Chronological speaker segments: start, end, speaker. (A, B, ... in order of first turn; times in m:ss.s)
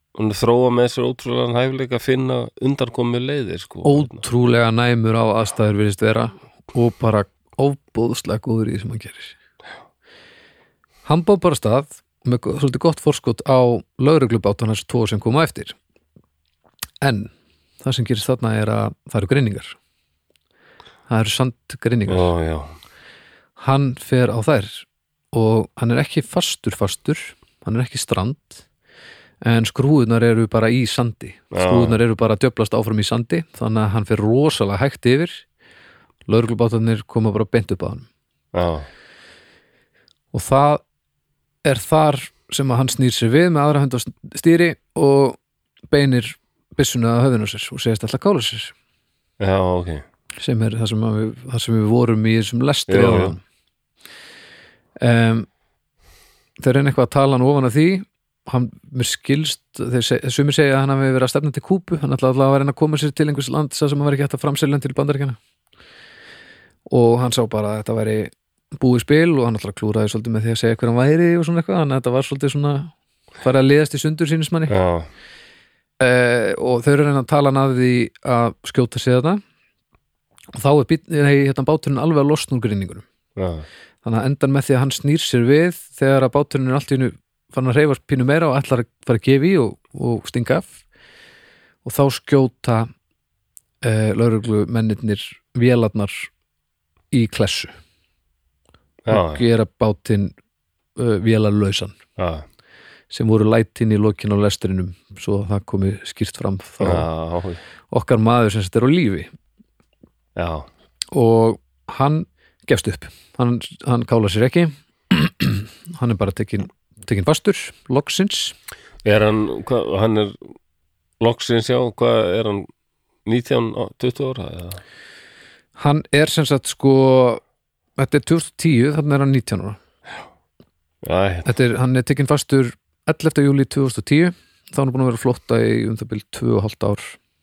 0:00.2-0:04.2 A
0:03.8-0:09.4 B
0:11.0-0:15.8 B
0:17.0-0:17.3 B
0:17.8-0:19.8 B
0:21.1-0:22.3 B
0:22.1-0:22.7 A
0:23.6-0:28.6 B
0:29.4-0:35.4 B
0:31.5-0:32.0 A
0:36.3-0:38.1 B
0:38.5-0:38.9 A
0:40.3-0:40.8 B
0:41.6-0:45.4 B
0:45.9-0:48.7 B
0:49.4-0:50.0 A
0:50.4-0:53.4 B
0:52.9-0:53.4 A
0:55.0-0:55.5 B
0:56.6-1:05.4 B
1:06.9-1:14.7 B
1:14.7-1:15.1 A
1:16.0-1:19.4 B
1:20.5-1:23.0 B
1:23.4-1:23.7 A
1:24.0-1:30.8 B
1:31.8-1:32.9 B
1:33.8-1:36.3 B
1:37.1-1:37.7 B
1:39.1-1:39.4 A
1:39.1-1:40.3 B
1:41.0-1:42.0 B
1:42.2-1:42.4 A
1:43.1-1:47.1 B
1:46.8-1:47.6 A
1:47.9-1:49.3 B
1:50.4-1:50.7 A
1:51.1-1:58.6 B
1:59.0-2:00.4 A
2:01.2-2:02.7 A
2:03.2-2:04.8 A
2:05.8-2:07.4 B
2:08.0-2:09.8 B
2:11.0-2:11.5 A
2:11.4-2:17.2 B